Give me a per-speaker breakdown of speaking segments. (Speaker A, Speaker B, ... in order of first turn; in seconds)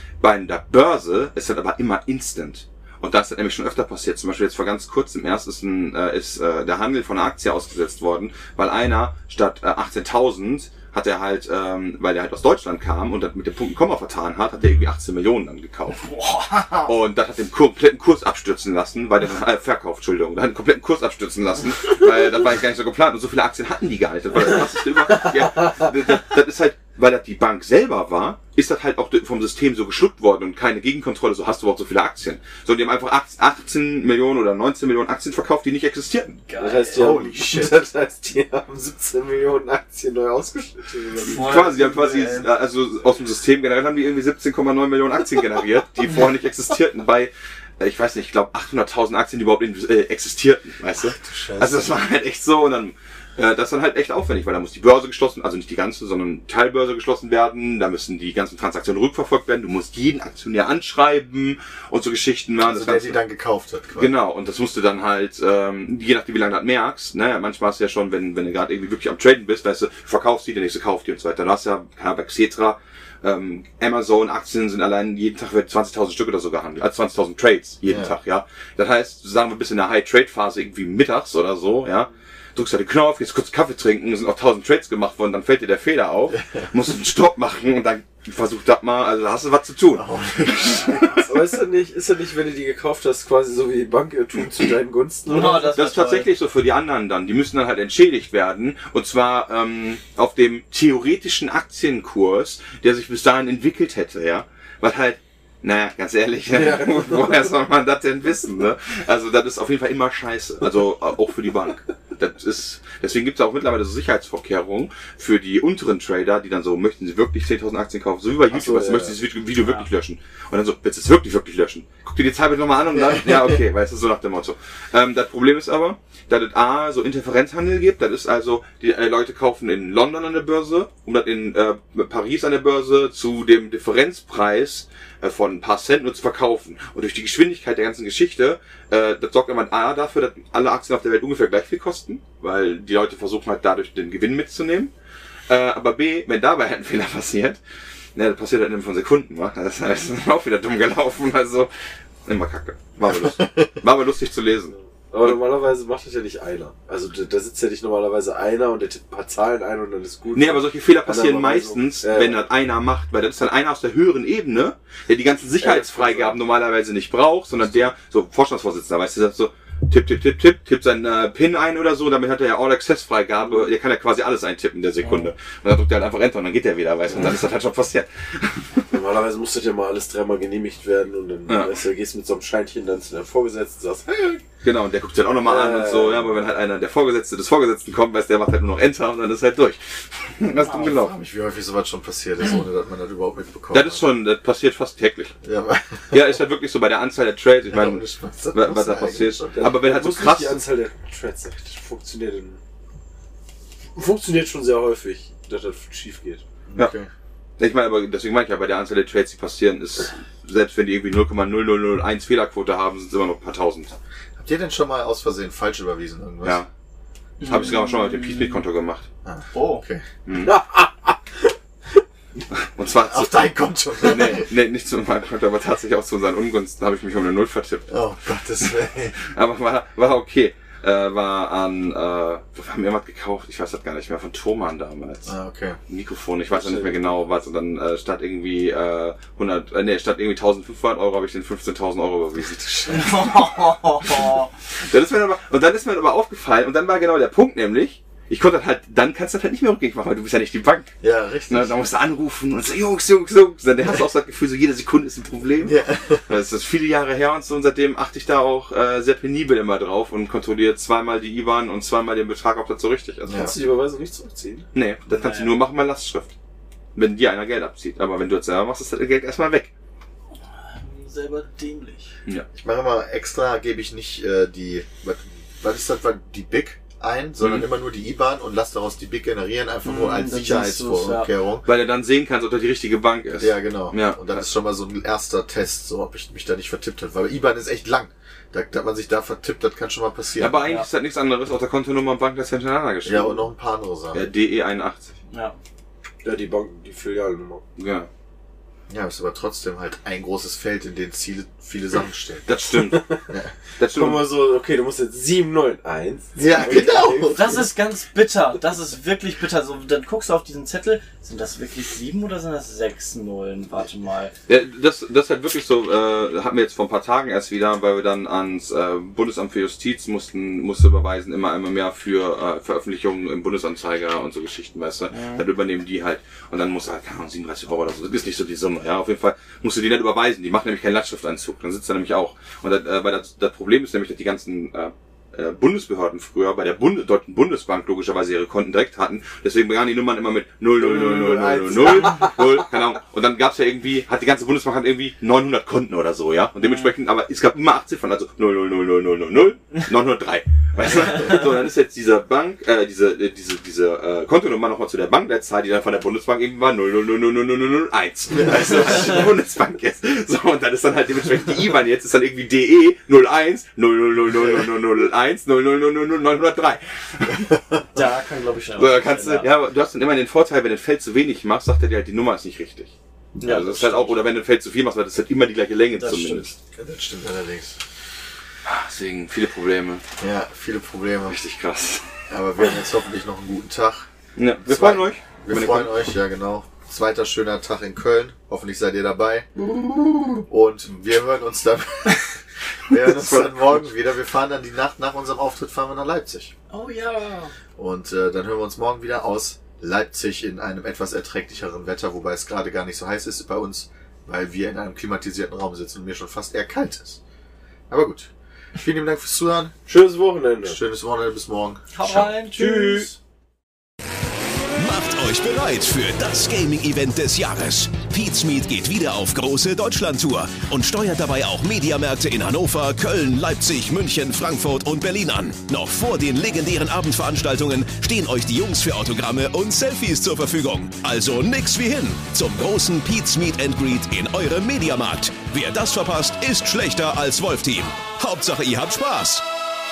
Speaker A: 0.2-16.1, 16.8-36.4, 41.3-63.2, 64.0-90.0, 95.5-144.9, 145.5-147.6, 148.1-151.7, 152.2-155.4, 160.3-178.9, 181.5-181.8, 184.6-191.1, 193.7-195.3, 196.1-200.6, 207.6-213.9, 216.4-216.7, 217.4-219.1, 220.2-220.5, 222.5-227.9, 229.2-235.3, 235.9-250.9, 251.5-263.5, 264.7-266.3, 266.9-269.7, 277.4-277.6, 281.6-284.4, 290.4-293.4, 294.1-295.1, 297.8-298.1, 302.4-303.2, 303.8-304.2, 314.5-367.6, 368.8-376.5, 378.6-380.0, 381.2-382.0, 384.4-385.9, 392.9-393.9
Speaker B: 16.1-16.9, 36.5-37.2, 41.2-42.5, 95.3-96.3, 217.4-217.9, 219.5-219.8, 242.9-244.5, 265.1-265.5, 270.7-272.1, 279.8-281.3, 295.3-295.6, 307.3-314.3, 325.1-325.4, 367.9-369.5, 373.4-374.1, 375.9-376.5, 396.7-397.5, 411.9-413.1
Speaker C: 36.6-41.6, 91.1-95.7, 106.5-107.3, 118.5-119.2, 155.1-162.4, 165.6-166.4, 178.9-184.4, 185.4-186.3, 199.6-202.6, 203.9-206.4, 220.4-222.0, 236.5-237.2, 263.3-264.7, 296.2-297.6, 302.8-303.2, 303.9-307.7, 340.8-342.6, 409.9-410.8, 412.4-413.1
Speaker D: 36.9-37.8, 51.0-51.9, 62.6-64.1, 77.8-78.2, 89.9-91.3, 153.0-153.6, 190.6-194.1, 195.4-196.3, 197.7-199.7, 206.7-207.1, 214.4-216.6, 219.2-220.0, 223.1-224.5, 227.9-229.2, 235.2-235.8, 251.0-251.8, 255.6-256.3, 263.3-263.5, 272.5-281.6, 283.4-290.6, 293.0-294.3, 298.9-302.5, 303.3-303.5, 306.4-307.7, 358.3-359.2, 376.8-377.8, 380.2-381.4, 382.3-384.1, 384.6-389.5, 390.3-392.4, 392.9-396.5, 397.8-407.2, 407.9-409.8, 410.6-412.3
Speaker E: 414.8-439.4